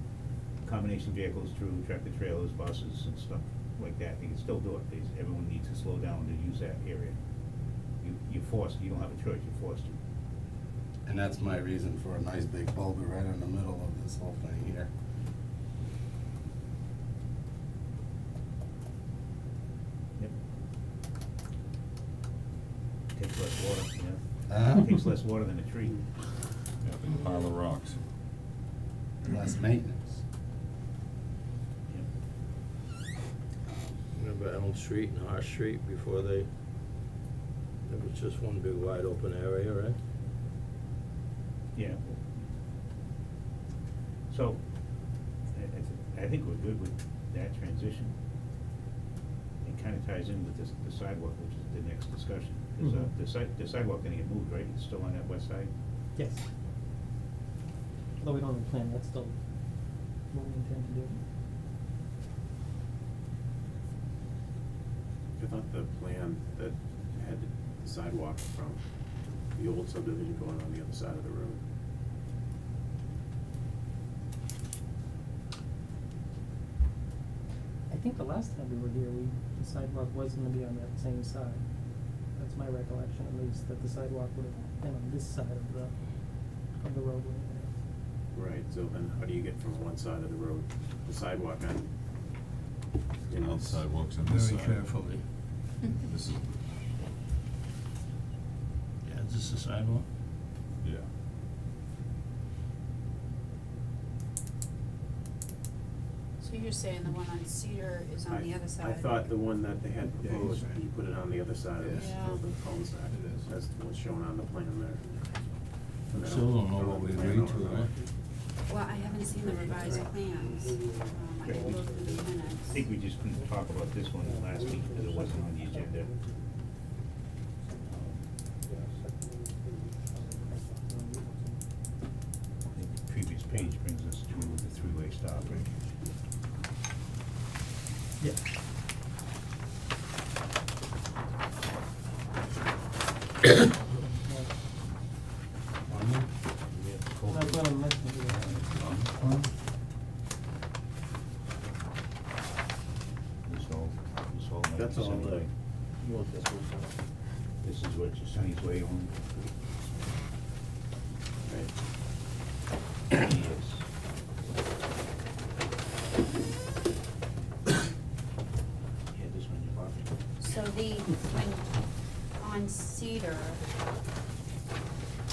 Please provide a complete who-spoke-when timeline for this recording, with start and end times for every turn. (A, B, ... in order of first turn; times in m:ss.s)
0:00.6-0:07.2 A
0:08.0-0:10.0 A
0:11.0-0:14.9 B
0:23.1-0:26.1 A
0:24.5-0:24.8 B
0:26.8-0:28.0 C
0:29.2-0:30.2 B
0:33.7-0:33.9 B
0:34.1-0:36.5 D
0:37.8-0:40.0 D
0:41.7-0:42.2 A
0:44.3-0:44.6 A
0:45.5-0:48.1 A
0:49.6-0:55.7 A
0:52.8-0:53.1 E
0:56.1-0:56.4 E
0:58.2-0:59.3 E
1:00.3-1:01.2 E
1:05.4-1:08.8 F
1:09.5-1:11.6 F
1:17.9-1:21.6 E
1:22.3-1:27.7 E
1:28.3-1:31.9 F
1:33.3-1:33.8 F
1:33.3-1:34.9 C
1:34.2-1:35.2 D
1:35.8-1:36.6 C
1:39.0-1:40.1 D
1:40.8-1:41.1 C
1:46.4-1:49.3 G
1:48.3-1:55.6 F
1:51.9-1:52.4 G
1:56.1-1:58.1 F
1:56.1-1:57.9 D
1:58.6-2:02.8 G
1:59.4-2:00.0 F
2:00.7-2:01.7 E
2:01.4-2:01.7 A
2:02.7-2:06.1 A
2:04.2-2:06.3 E
2:08.7-2:11.6 E
2:12.7-2:15.6 A
2:24.0-2:24.5 E
2:26.7-2:27.7 A
2:27.3-2:28.4 E
2:28.3-2:29.5 C
2:33.4-2:35.5 A
2:34.8-2:35.5 F
2:36.0-2:37.0 F
2:37.6-2:39.1 A
2:41.4-2:41.7 F
2:43.1-2:43.8 A
2:49.1-2:50.1 A
2:50.4-2:51.8 G
2:52.4-2:53.6 G